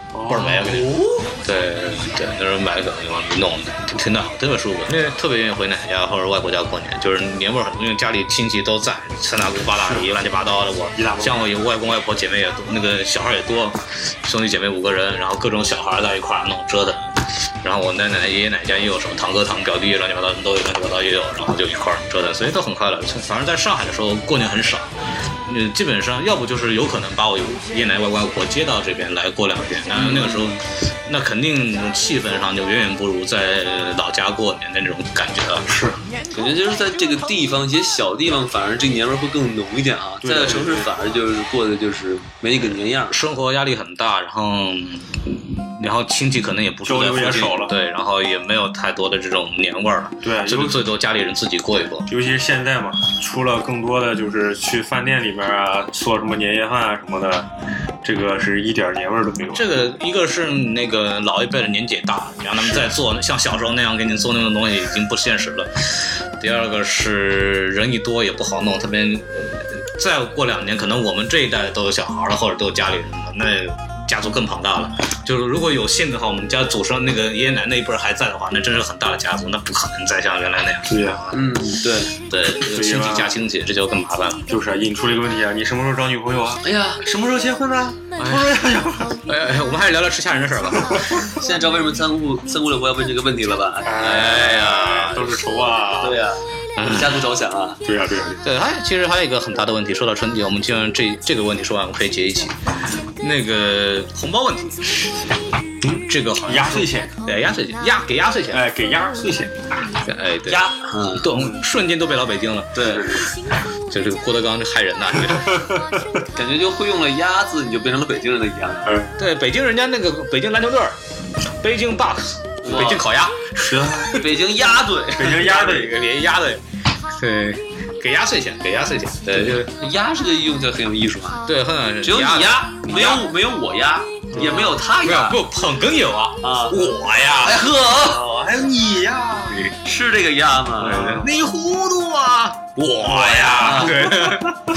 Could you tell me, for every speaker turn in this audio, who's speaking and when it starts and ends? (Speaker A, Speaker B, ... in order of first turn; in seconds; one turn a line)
Speaker A: 0.1-0.9
Speaker B: 0.3-17.1
Speaker C: 0.8-1.2
Speaker A: 9.7-10.1
Speaker A: 10.9-11.5
Speaker B: 17.6-35.7
Speaker C: 29.9-30.6
Speaker A: 35.7-36.0
Speaker C: 36.3-43.2
Speaker A: 40.2-40.9
Speaker B: 43.1-52.1
Speaker A: 46.8-47.7
Speaker A: 50.2-50.8
Speaker A: 52.1-57.5
Speaker A: 58.0-59.7
Speaker B: 59.5-81.5
Speaker A: 62.6-62.9
Speaker A: 80.9-81.2
Speaker C: 81.3-82.1
Speaker B: 82.3-84.5
Speaker A: 82.6-83.4
Speaker A: 84.5-89.2
Speaker C: 86.6-87.0
Speaker B: 88.2-88.5
Speaker B: 89.2-91.2
Speaker A: 90.7-91.1
Speaker C: 91.3-94.6
Speaker A: 93.8-96.2
Speaker B: 94.0-95.4
Speaker C: 96.0-97.8
Speaker B: 96.8-97.2
Speaker A: 97.8-98.4
Speaker B: 98.4-102.5
Speaker B: 103.2-104.8
Speaker A: 105.8-107.1
Speaker B: 105.9-108.6
Speaker A: 108.5-109.7
Speaker B: 110.0-110.7
Speaker C: 110.5-111.3
Speaker B: 111.2-113.1
Speaker A: 111.3-111.6
Speaker C: 112.7-113.2
Speaker A: 112.9-113.3
Speaker B: 113.9-115.7
Speaker A: 115.3-116.0
Speaker C: 116.3-119.0
Speaker A: 118.9-119.1
Speaker B: 119.2-121.0
Speaker B: 121.6-124.2
Speaker C: 122.6-123.0
Speaker A: 123.7-124.2
Speaker C: 124.2-125.5
Speaker A: 125.1-126.0
Speaker B: 125.3-126.6
Speaker B: 127.1-129.7
Speaker C: 129.3-131.4
Speaker B: 131.4-133.2
Speaker C: 132.0-135.4
Speaker A: 134.3-134.8
Speaker B: 134.4-137.7
Speaker C: 136.4-136.8
Speaker C: 137.4-138.3
Speaker A: 137.9-139.6
Speaker C: 139.8-141.2
Speaker A: 140.8-141.3
Speaker B: 140.8-144.6
Speaker A: 143.0-144.6
Speaker C: 143.6-144.0